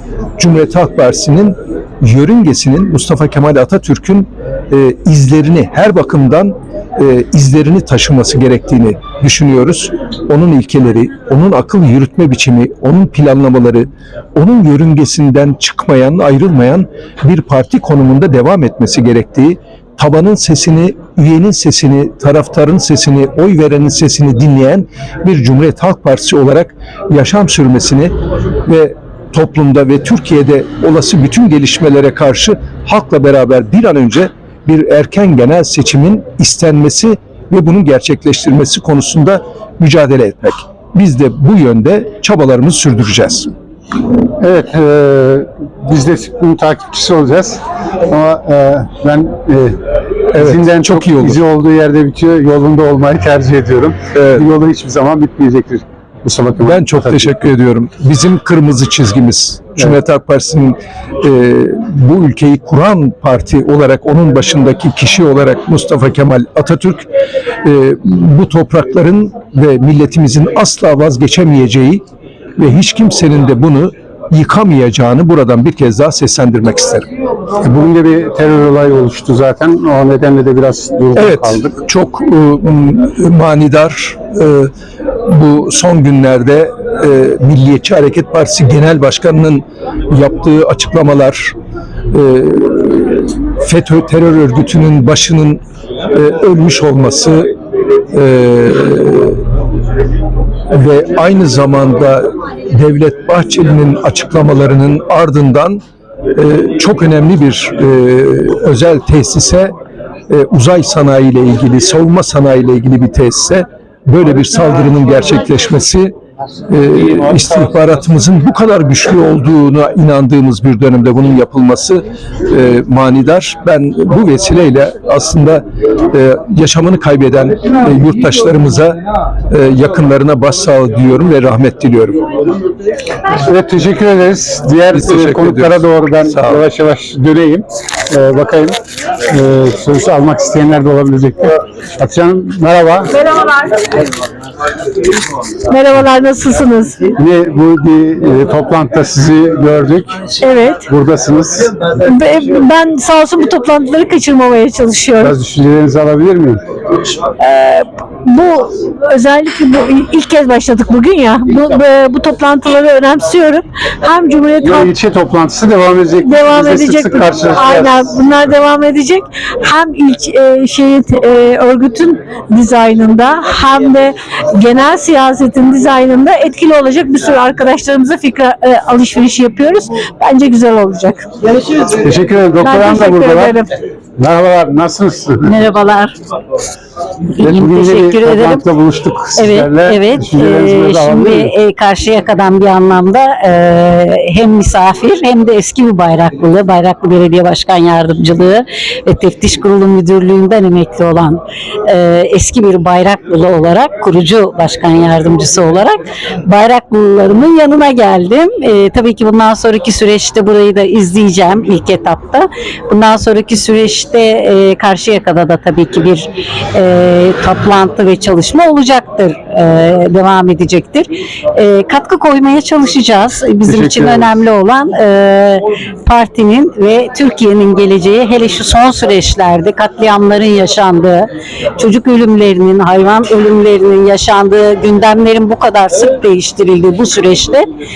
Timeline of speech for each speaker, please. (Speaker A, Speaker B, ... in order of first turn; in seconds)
Speaker A: 0.4-43.5, 50.3-51.4, 54.1-54.5, 56.6-67.1, 67.6-72.0, 72.6-77.1, 81.2-84.7, 85.2-91.6, 92.1-97.5, 98.1-99.4, 100.7-109.8, 110.3-116.2, 116.7-132.3, 134.9-136.7
Speaker B: 44.4-49.8, 50.3-57.3, 77.6-81.7, 133.4-143.2, 147.2-150.3, 150.9-151.9, 155.2-156.6, 164.6-168.1, 181.6-183.6, 184.2-185.4, 187.4-191.5, 223.7-224.3
Speaker C: 143.3-143.8, 145.7-147.1, 150.4-150.9, 152.0-155.4, 157.3-164.9, 166.2-181.3, 182.6-183.7
Speaker D: 185.4-186.2, 187.4-188.7, 189.3-237.7